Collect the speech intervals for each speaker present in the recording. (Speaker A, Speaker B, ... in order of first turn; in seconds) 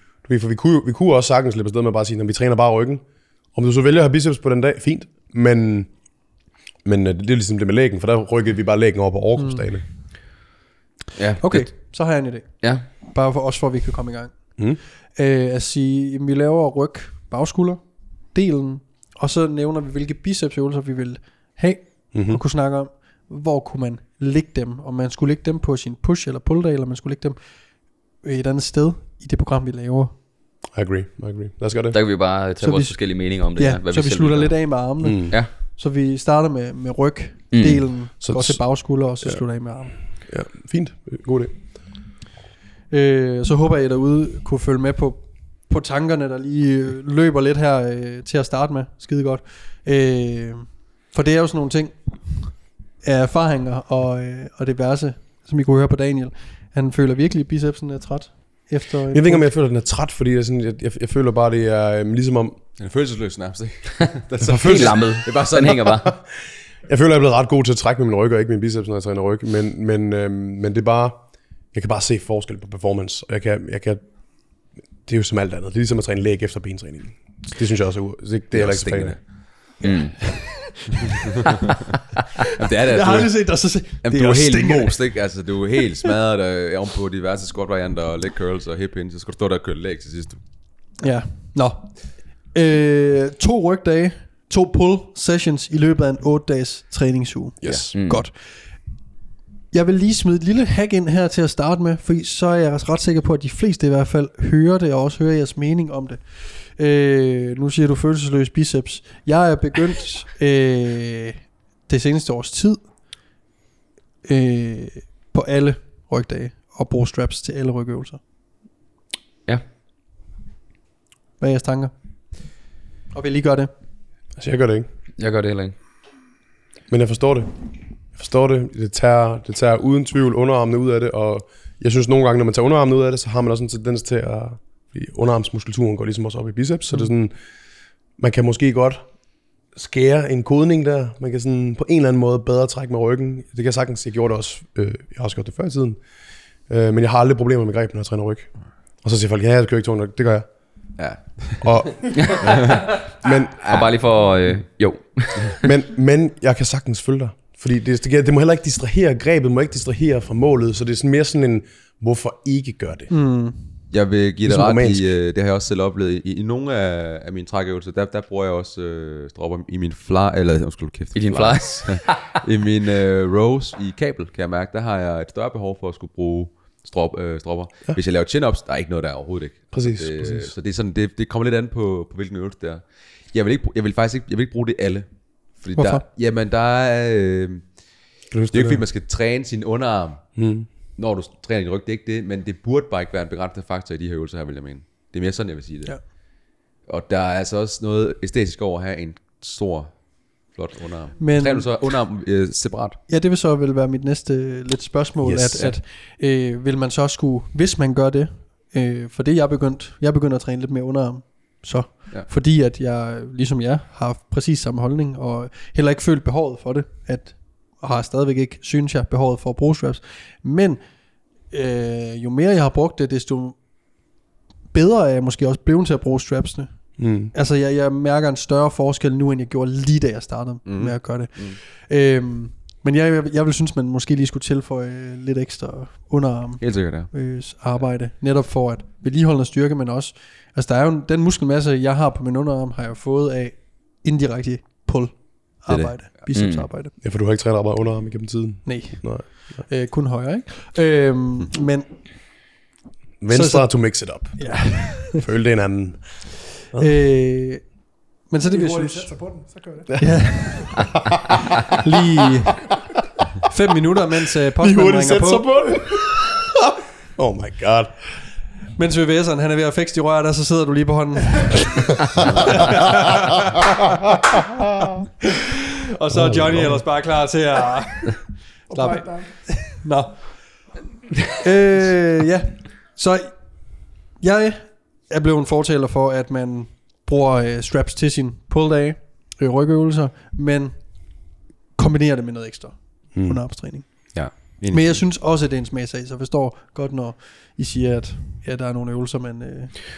Speaker A: 0.2-5.9, 6.8-9.9, 22.1-22.4, 30.7-32.0, 35.0-35.4, 38.2-39.4, 40.0-41.5, 59.1-62.6, 64.4-66.3, 66.9-74.0, 74.6-79.2, 97.6-97.9, 124.4-124.9, 126.9-127.5, 128.1-137.3, 138.2-139.1, 139.7-146.0, 146.7-150.5, 151.6-152.7, 153.2-153.6, 155.6-163.1, 164.4-165.1, 179.7-180.5, 188.3-188.8, 190.4-190.7, 205.2-205.7, 227.0-227.3, 247.0-249.7, 253.2-256.9, 259.9-260.8, 264.6-266.5, 267.1-268.1, 276.1-276.8, 293.1-293.4
Speaker B: 9.4-9.6, 11.4-30.1, 32.6-40.0, 42.9-59.5, 82.9-85.1, 91.0-98.9, 99.7-112.9, 114.2-118.2, 121.4-121.9, 123.1-123.7, 163.1-163.6, 185.8-186.0, 201.2-201.8, 203.1-223.6, 224.7-246.9, 248.7-252.0, 253.3-255.2, 256.8-259.1, 260.0-260.8, 261.8-262.6, 263.5-265.8, 268.8-272.9, 275.9-280.6, 281.4-299.8
Speaker C: 11.2-11.9, 12.6-12.8, 31.9-35.5, 37.5-37.9, 64.6-66.1, 79.8-80.4, 97.9-98.2, 125.2-125.8, 152.2-152.8, 153.7-155.7, 171.2-172.3, 246.3-246.7
Speaker D: 62.8-66.0, 78.5-79.2, 82.5-90.4, 151.0-151.8, 152.4-153.1, 153.6-154.0, 163.9-190.4, 190.9-203.0, 230.7-231.6, 236.6-237.1, 245.7-246.2, 294.1-295.1
Speaker E: 258.5-260.9, 278.7-279.9